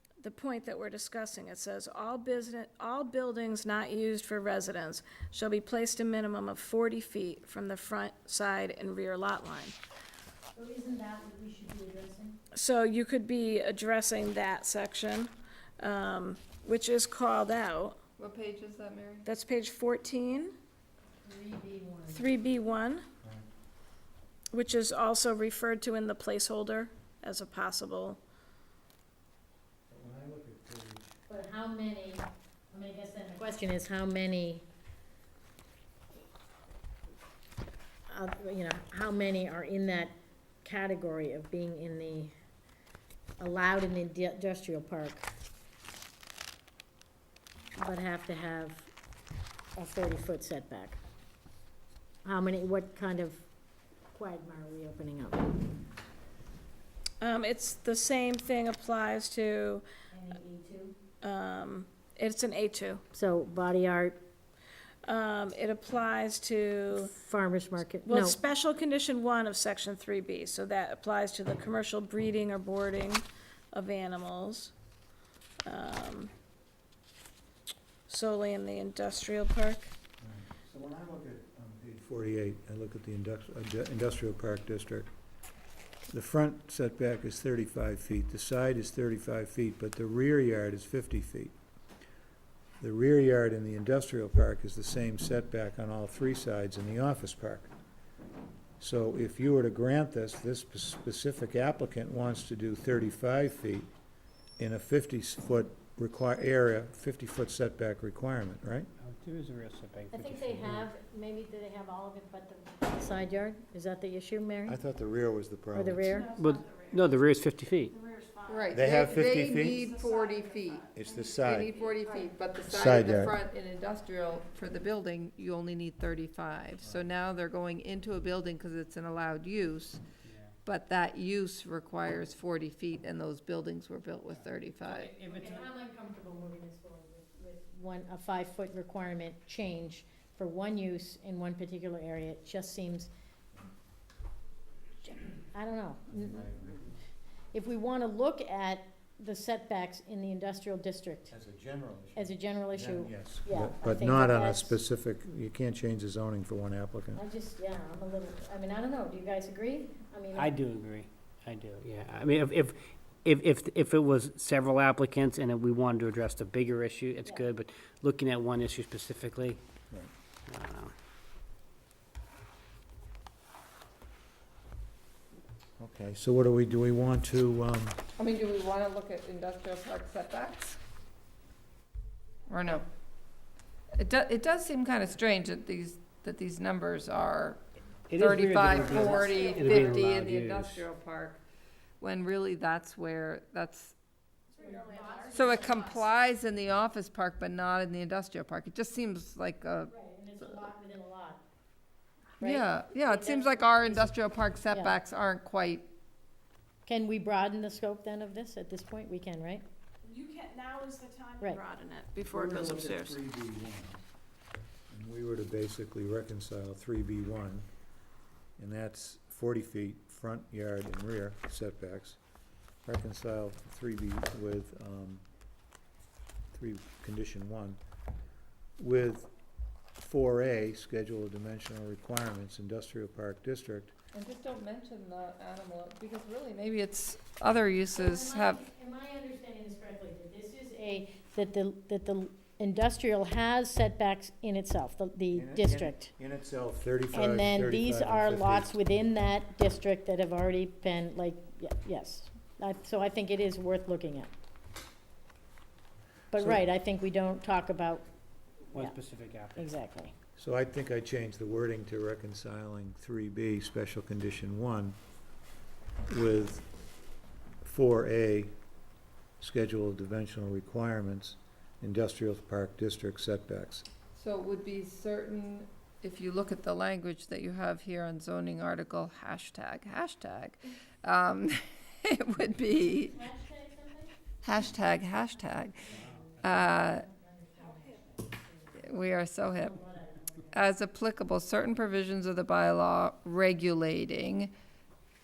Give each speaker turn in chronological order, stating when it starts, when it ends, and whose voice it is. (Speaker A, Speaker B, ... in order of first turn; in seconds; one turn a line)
Speaker A: 0.2-9.8
Speaker B: 10.6-12.4
Speaker A: 12.5-18.0
Speaker C: 18.2-19.3
Speaker A: 19.2-20.6
Speaker B: 21.2-22.3
Speaker A: 22.1-23.1
Speaker A: 24.5-28.2
Speaker D: 29.9-31.1
Speaker B: 31.3-34.6
Speaker B: 38.1-42.3
Speaker B: 43.4-45.3
Speaker B: 47.8-48.9
Speaker B: 49.8-51.0
Speaker B: 52.2-53.5
Speaker B: 54.1-55.6
Speaker A: 57.2-59.8
Speaker B: 60.1-61.0
Speaker A: 61.2-63.0
Speaker B: 63.1-64.2
Speaker A: 65.0-67.1
Speaker B: 67.0-68.4
Speaker A: 68.1-74.7
Speaker A: 75.7-76.3
Speaker A: 78.1-79.9
Speaker D: 80.2-85.1
Speaker D: 86.1-91.5
Speaker D: 92.8-97.7
Speaker D: 98.8-103.9
Speaker D: 104.6-108.9
Speaker E: 109.0-110.9
Speaker B: 110.1-114.8
Speaker D: 114.7-116.0
Speaker B: 115.7-116.3
Speaker A: 116.0-117.2
Speaker E: 116.4-117.9
Speaker A: 117.9-122.3
Speaker C: 118.5-120.9
Speaker D: 118.7-119.8
Speaker D: 121.0-121.7
Speaker C: 121.4-130.0
Speaker D: 122.7-123.3
Speaker E: 130.2-130.5
Speaker C: 130.7-135.1
Speaker E: 134.3-135.7
Speaker B: 135.2-143.1
Speaker B: 145.0-146.5
Speaker D: 146.1-146.9
Speaker B: 147.5-151.3
Speaker D: 151.3-157.2
Speaker B: 152.2-154.8
Speaker B: 157.2-160.6
Speaker E: 160.3-169.6
Speaker E: 170.5-170.9
Speaker D: 175.8-178.0
Speaker C: 178.2-180.8
Speaker C: 182.5-182.8
Speaker C: 183.9-187.6
Speaker E: 188.1-190.9
Speaker C: 188.2-191.4
Speaker A: 188.6-190.1
Speaker C: 192.0-193.9
Speaker A: 194.5-196.1
Speaker B: 194.6-196.1
Speaker C: 195.3-199.9
Speaker B: 199.9-201.4
Speaker B: 202.4-204.1
Speaker C: 202.4-205.9
Speaker B: 204.7-205.0
Speaker B: 206.9-209.7
Speaker A: 210.0-213.2
Speaker D: 212.3-214.0
Speaker D: 214.9-217.7
Speaker D: 218.6-222.2
Speaker D: 222.8-225.2
Speaker D: 226.5-227.8
Speaker D: 228.8-229.3
Speaker D: 230.0-233.9
Speaker C: 234.1-238.6
Speaker B: 237.9-246.1
Speaker D: 245.3-248.8
Speaker B: 247.1-254.3
Speaker B: 256.3-258.1
Speaker E: 258.7-259.7
Speaker B: 259.6-260.1
Speaker D: 260.4-265.0
Speaker D: 266.1-266.6
Speaker D: 267.6-268.6
Speaker D: 269.4-273.9
Speaker C: 274.1-283.2
Speaker B: 282.8-284.1
Speaker C: 284.4-285.9
Speaker B: 285.8-288.9
Speaker C: 286.4-287.1
Speaker A: 287.6-288.3
Speaker C: 288.8-289.8
Speaker B: 289.6-290.6
Speaker C: 290.5-294.5